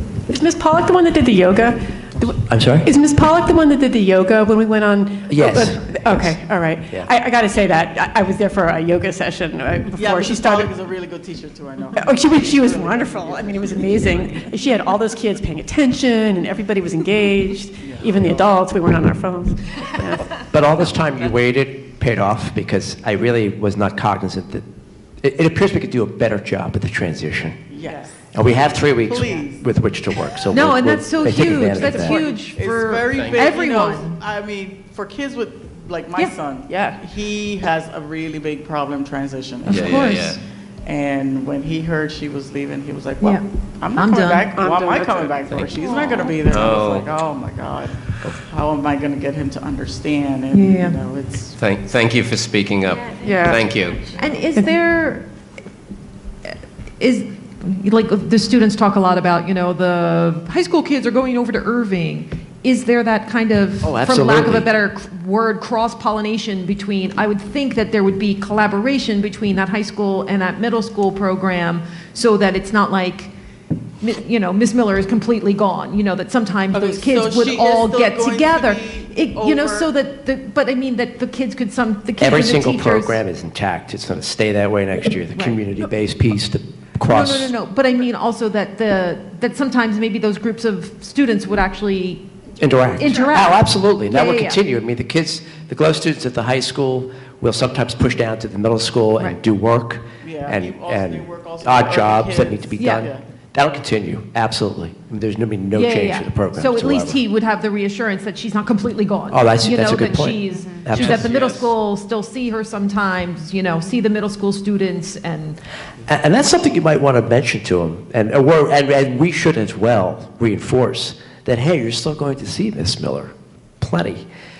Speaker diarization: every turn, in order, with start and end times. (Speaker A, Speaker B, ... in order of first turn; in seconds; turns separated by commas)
Speaker A: 0.3-10.7, Speaker B: 2.4-2.9, Speaker B: 5.3-6.4, Speaker C: 10.0-14.1, Speaker A: 11.9-20.4, Speaker C: 17.8-18.3, Speaker B: 20.3-24.6, Speaker B: 25.2-27.6, Speaker C: 27.7-28.1, Speaker B: 28.3-32.2, Speaker C: 29.0-29.6, Speaker D: 30.5-34.2, Speaker C: 31.9-51.6, Speaker E: 33.1-33.4, Speaker A: 36.7-37.0, Speaker D: 39.6-40.4, Speaker E: 39.7-40.4, Speaker D: 43.9-44.5, Speaker A: 44.5-45.5, Speaker E: 45.5-47.1, Speaker D: 45.8-46.2, Speaker D: 50.5-51.0, Speaker E: 51.6-54.1, Speaker A: 53.2-53.6, Speaker D: 54.1-55.2, Speaker D: 56.5-73.3, Speaker B: 63.8-64.7, Speaker D: 74.0-83.2, Speaker C: 76.7-79.9, Speaker B: 82.2-87.5, Speaker D: 85.3-85.6, Speaker D: 87.0-92.2, Speaker B: 92.6-107.2, Speaker D: 93.0-94.6, Speaker C: 100.2-103.2, Speaker D: 102.8-103.0, Speaker D: 105.7-115.6, Speaker B: 109.3-111.4, Speaker E: 110.8-111.6, Speaker B: 116.0-124.2